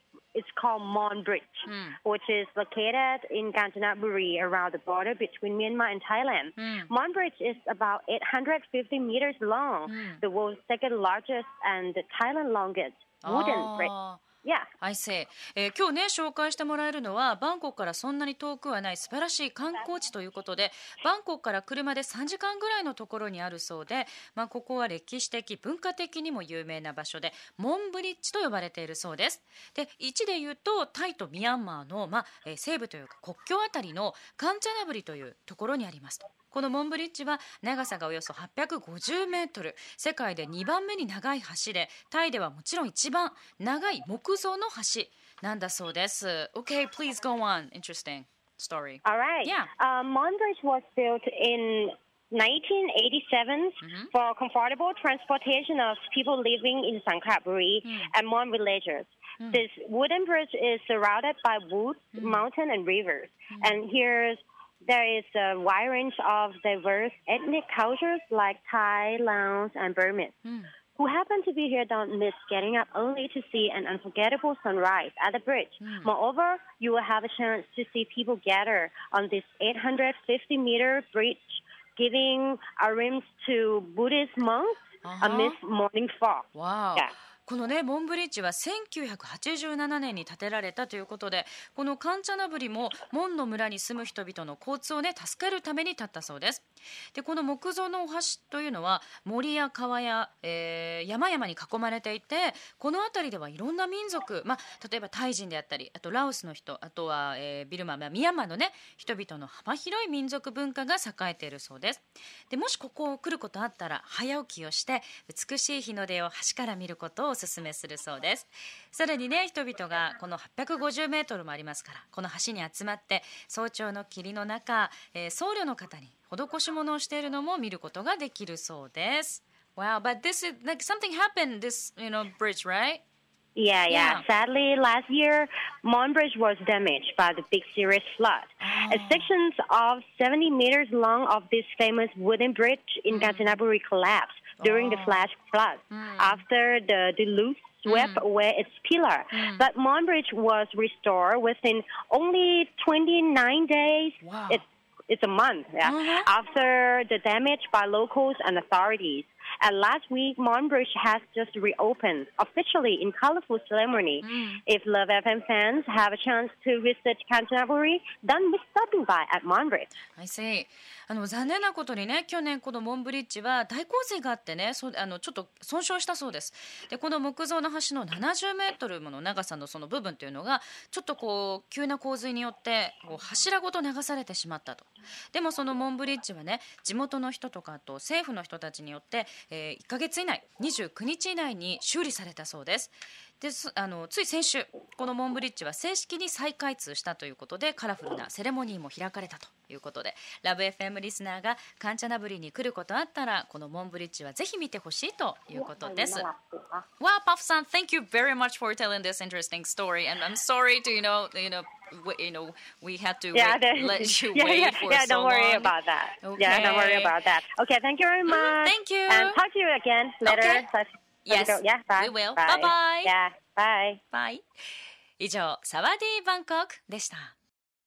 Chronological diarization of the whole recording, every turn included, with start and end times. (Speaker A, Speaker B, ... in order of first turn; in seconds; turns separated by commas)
Speaker A: 0.3-13.9, Speaker B: 1.7-2.0, Speaker B: 6.6-6.9, Speaker B: 9.9-10.2, Speaker B: 13.2-14.2, Speaker B: 14.8-49.7, Speaker A: 49.0-70.4, Speaker B: 53.8-54.1, Speaker B: 57.9-58.1, Speaker B: 62.2-62.4, Speaker B: 63.5-63.8, Speaker B: 70.4-70.7, Speaker A: 71.0-87.1, Speaker B: 75.8-76.1, Speaker B: 85.0-85.6, Speaker B: 86.5-133.0, Speaker A: 133.6-169.9, Speaker B: 133.9-134.2, Speaker B: 138.6-139.3, Speaker B: 143.1-143.6, Speaker B: 144.6-145.3, Speaker B: 145.9-146.4, Speaker B: 147.9-148.2, Speaker B: 149.3-149.7, Speaker B: 154.2-154.6, Speaker B: 155.8-156.3, Speaker B: 164.2-164.6, Speaker B: 170.2-206.3, Speaker A: 205.6-206.8, Speaker B: 207.0-217.2, Speaker A: 213.3-224.0, Speaker B: 218.3-219.4, Speaker B: 220.2-220.7, Speaker B: 221.3-223.1, Speaker B: 224.1-224.4, Speaker B: 225.2-227.3